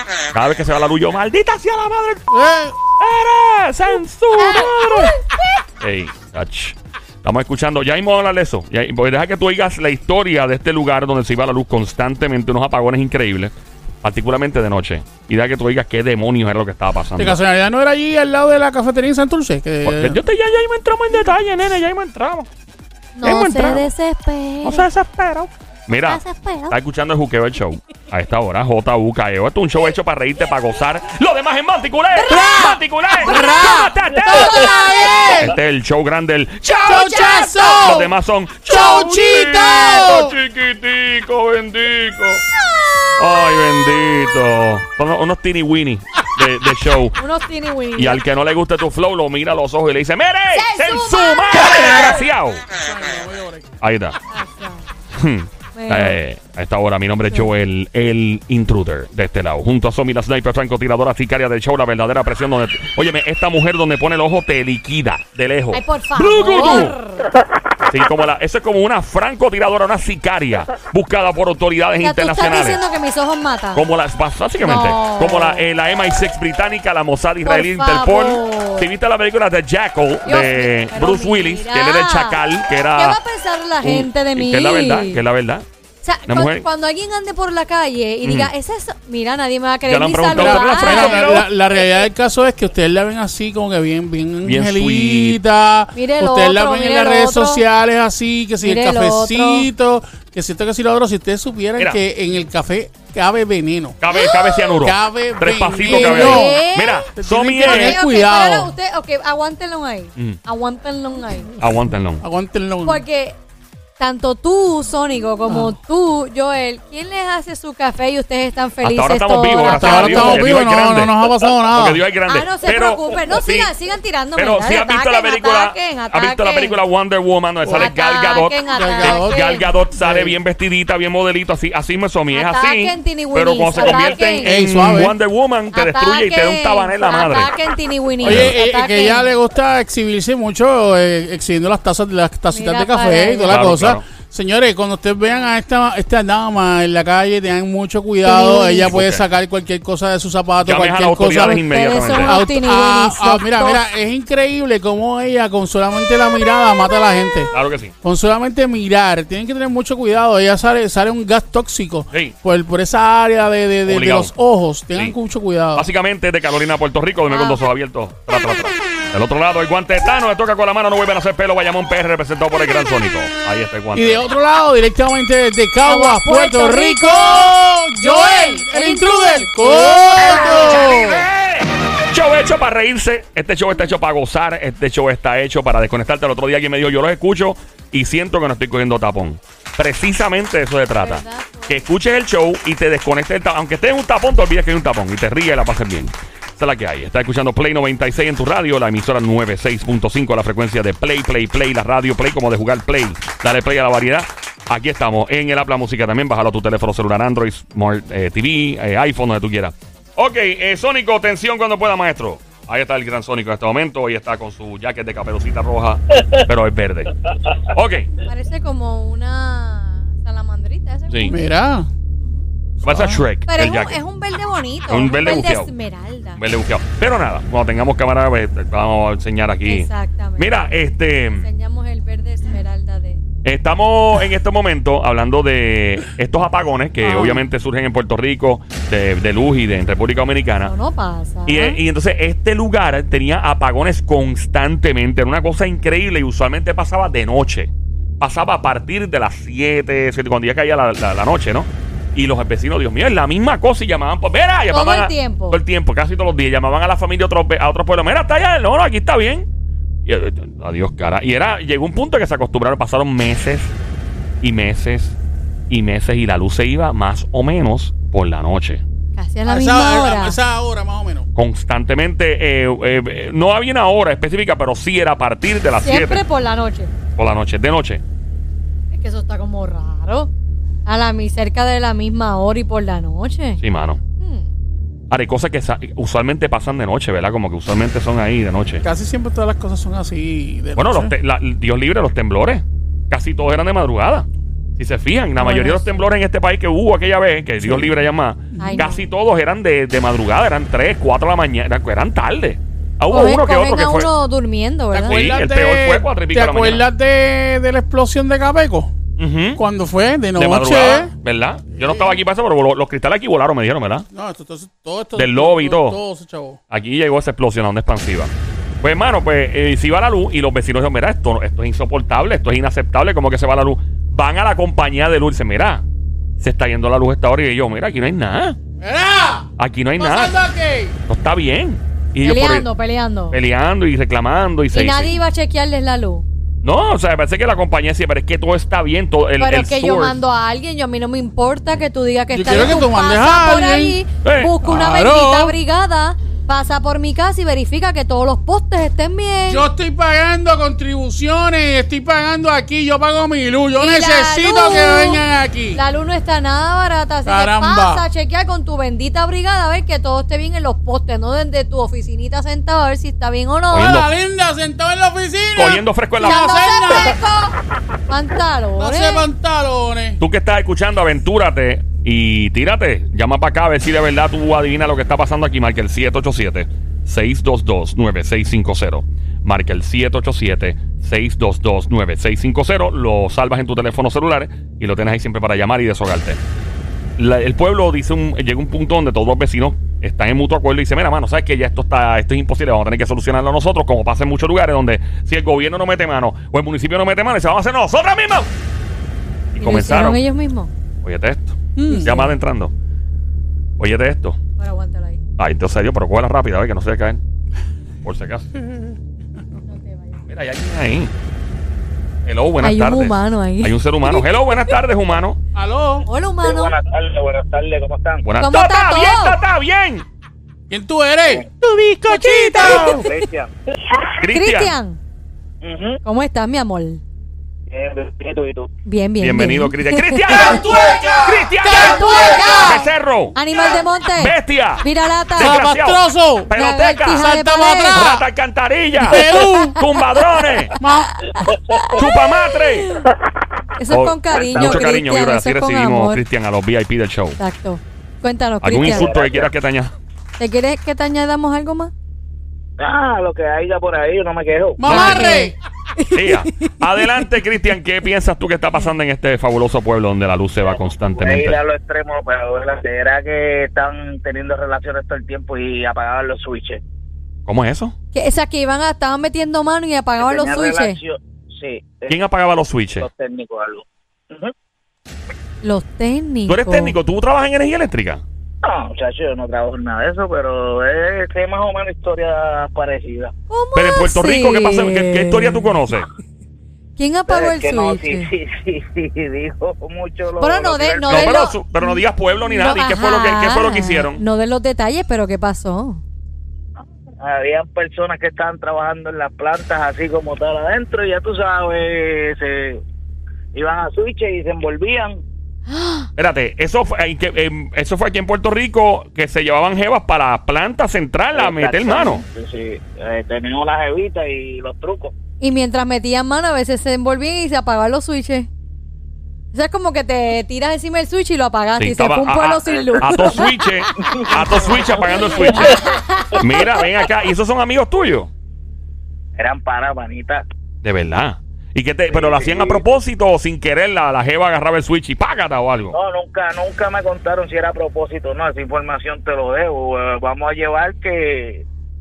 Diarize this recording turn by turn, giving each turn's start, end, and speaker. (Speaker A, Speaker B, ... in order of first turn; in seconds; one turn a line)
Speaker A: 0.3-2.3
Speaker B: 2.3-2.8
Speaker A: 3.0-5.1
Speaker C: 4.3-5.2
Speaker A: 5.8-13.5
Speaker A: 14.0-17.4
Speaker B: 17.1-20.2
Speaker A: 19.8-22.5
Speaker C: 23.1-24.9
Speaker A: 23.2-23.8
Speaker A: 24.6-34.7
Speaker C: 26.1-26.8
Speaker B: 32.2-35.5
Speaker C: 34.3-35.4
Speaker A: 35.2-42.4
Speaker B: 36.8-40.4
Speaker A: 43.2-47.2
Speaker C: 47.2-48.2
Speaker A: 48.0-52.6
Speaker C: 50.5-51.4
Speaker B: 52.8-53.7
Speaker A: 53.8-54.2
Speaker C: 54.3-54.9
Speaker A: 55.1-66.9
Speaker C: 55.7-56.2
Speaker C: 65.7-67.3
Speaker A: 67.8-72.8
Speaker C: 72.0-73.8
Speaker A: 73.7-83.2
Speaker C: 74.6-75.6
Speaker C: 77.4-78.9
Speaker C: 80.2-82.4
Speaker C: 82.9-85.2
Speaker A: 83.8-85.7
Speaker C: 86.0-91.2
Speaker A: 86.3-86.6
Speaker A: 88.2-88.5
Speaker A: 89.9-91.5
Speaker B: 90.3-104.0
Speaker A: 94.4-95.4
Speaker C: 95.9-97.6
Speaker C: 98.6-99.7
Speaker A: 104.0-108.0
Speaker C: 104.1-104.7
Speaker B: 104.8-106.6
Speaker C: 105.9-107.1
Speaker B: 107.2-108.7
Speaker C: 107.6-111.5
Speaker A: 111.6-112.2
Speaker B: 112.2-113.0
Speaker C: 112.8-113.4
Speaker C: 114.0-120.6
Speaker B: 115.5-115.7
Speaker A: 118.8-121.2
Speaker B: 119.7-122.0
Speaker A: 121.7-123.7
Speaker C: 122.3-126.8
Speaker A: 124.3-137.5
Speaker B: 127.6-127.9
Speaker C: 127.8-129.7
Speaker B: 128.7-130.4
Speaker C: 132.3-134.6
Speaker B: 133.8-135.2
Speaker C: 135.7-139.3
Speaker B: 138.2-157.5
Speaker A: 138.2-138.5
Speaker C: 142.5-143.6
Speaker A: 143.5-144.0
Speaker C: 148.2-148.9
Speaker A: 148.9-149.2
Speaker A: 150.6-152.4
Speaker C: 151.6-153.8
Speaker A: 157.5-157.9
Speaker B: 158.0-165.9
Speaker A: 163.9-164.3
Speaker A: 165.7-174.2
Speaker C: 167.3-167.6
Speaker B: 173.9-181.3
Speaker C: 175.8-180.9
Speaker A: 180.4-218.1
Speaker C: 191.0-191.8
Speaker C: 218.2-221.4
Speaker B: 221.3-221.9
Speaker A: 222.8-224.0
Speaker B: 222.8-223.2
Speaker C: 223.5-226.4
Speaker A: 224.9-225.7
Speaker A: 226.4-231.4
Speaker C: 229.6-230.7
Speaker C: 231.4-233.2
Speaker A: 233.4-240.7
Speaker C: 237.0-237.4
Speaker C: 240.6-241.8
Speaker A: 241.5-259.5
Speaker C: 254.7-255.6
Speaker A: 260.1-263.7
Speaker A: 264.4-265.2
Speaker A: 265.7-268.8
Speaker C: 269.1-270.4
Speaker B: 269.5-271.3
Speaker A: 271.4-276.2
Speaker C: 275.8-276.9
Speaker A: 277.1-278.0
Speaker C: 278.9-280.3
Speaker C: 280.9-283.6
Speaker A: 283.6-284.0
Speaker C: 284.2-284.5
Speaker A: 285.1-288.8
Speaker B: 288.8-291.1
Speaker A: 290.8-304.1
Speaker C: 295.4-295.9
Speaker B: 297.6-297.9
Speaker B: 298.6-298.9
Speaker C: 298.6-299.0
Speaker C: 303.1-305.3
Speaker B: 304.9-308.9
Speaker A: 305.1-306.8
Speaker A: 309.2-309.6
Speaker B: 309.6-311.1
Speaker A: 310.4-314.1
Speaker B: 311.8-312.2
Speaker B: 314.1-316.6
Speaker A: 315.1-316.0
Speaker A: 316.7-318.3
Speaker A: 318.8-325.8
Speaker A: 326.4-328.6
Speaker B: 328.8-331.0
Speaker A: 329.6-330.4
Speaker A: 331.1-332.6
Speaker C: 332.2-333.4
Speaker A: 333.3-335.2
Speaker C: 334.7-336.2
Speaker A: 336.6-340.2
Speaker C: 339.4-349.7
Speaker B: 342.3-344.0
Speaker A: 344.2-344.6
Speaker B: 344.6-345.6
Speaker B: 349.5-355.8
Speaker C: 353.8-355.2
Speaker C: 355.7-364.0
Speaker B: 357.2-358.1
Speaker A: 363.7-364.1
Speaker B: 363.7-367.2
Speaker A: 365.6-366.6
Speaker C: 366.2-367.6
Speaker C: 368.1-369.3
Speaker B: 368.8-370.2
Speaker A: 370.2-386.4
Speaker A: 387.2-398.5
Speaker A: 399.5-400.2
Speaker C: 399.6-400.7
Speaker A: 401.0-402.7
Speaker B: 401.8-402.2
Speaker C: 401.9-402.3
Speaker A: 403.8-404.4
Speaker C: 404.6-405.2
Speaker A: 405.4-407.2
Speaker A: 408.0-408.5
Speaker C: 409.6-410.2
Speaker A: 410.3-411.1
Speaker A: 412.2-415.4
Speaker C: 412.6-414.3
Speaker B: 415.5-416.1
Speaker C: 416.1-416.7
Speaker D: 416.4-418.2
Speaker A: 418.2-420.1
Speaker C: 418.4-419.4
Speaker B: 420.7-423.1
Speaker C: 422.1-423.1
Speaker D: 422.6-424.1
Speaker A: 424.2-424.7
Speaker C: 424.3-425.0
Speaker D: 425.6-426.0
Speaker C: 426.0-427.0
Speaker D: 427.7-428.7
Speaker C: 428.8-430.6
Speaker A: 429.2-433.4
Speaker B: 430.3-432.9
Speaker D: 430.5-431.5
Speaker C: 431.7-435.6
Speaker A: 434.1-437.3
Speaker B: 435.4-436.5
Speaker C: 436.5-438.0
Speaker B: 437.1-438.2
Speaker A: 437.9-440.8
Speaker B: 439.0-439.8
Speaker C: 439.1-439.9
Speaker C: 440.7-443.1
Speaker B: 440.8-441.2
Speaker A: 441.9-442.9
Speaker C: 443.8-446.2
Speaker A: 443.9-447.4
Speaker D: 444.3-444.9
Speaker C: 447.4-449.1
Speaker A: 448.6-449.9
Speaker D: 448.8-449.5
Speaker C: 450.4-451.9
Speaker D: 452.8-455.1
Speaker B: 454.8-455.5
Speaker A: 454.9-455.4
Speaker C: 454.9-456.8
Speaker A: 456.1-461.6
Speaker D: 460.7-466.8
Speaker A: 467.4-467.9
Speaker C: 468.1-471.0
Speaker D: 470.2-472.1
Speaker A: 472.1-473.1
Speaker D: 473.0-474.5
Speaker C: 475.6-476.9
Speaker A: 476.5-478.2
Speaker D: 478.6-483.3
Speaker C: 483.5-485.8
Speaker A: 483.7-486.1
Speaker C: 487.0-488.3
Speaker D: 487.3-491.4
Speaker C: 490.4-496.0
Speaker A: 491.1-494.2
Speaker D: 497.2-502.8
Speaker D: 503.5-505.2
Speaker C: 505.7-506.1
Speaker A: 506.2-512.2
Speaker D: 511.3-515.1
Speaker C: 515.4-518.5
Speaker C: 519.5-524.3
Speaker A: 521.8-525.8
Speaker D: 522.9-523.3
Speaker D: 524.0-525.9
Speaker C: 525.4-526.8
Speaker A: 526.3-528.3
Speaker D: 529.4-530.4
Speaker A: 530.8-536.0
Speaker D: 532.1-532.8
Speaker D: 535.9-541.6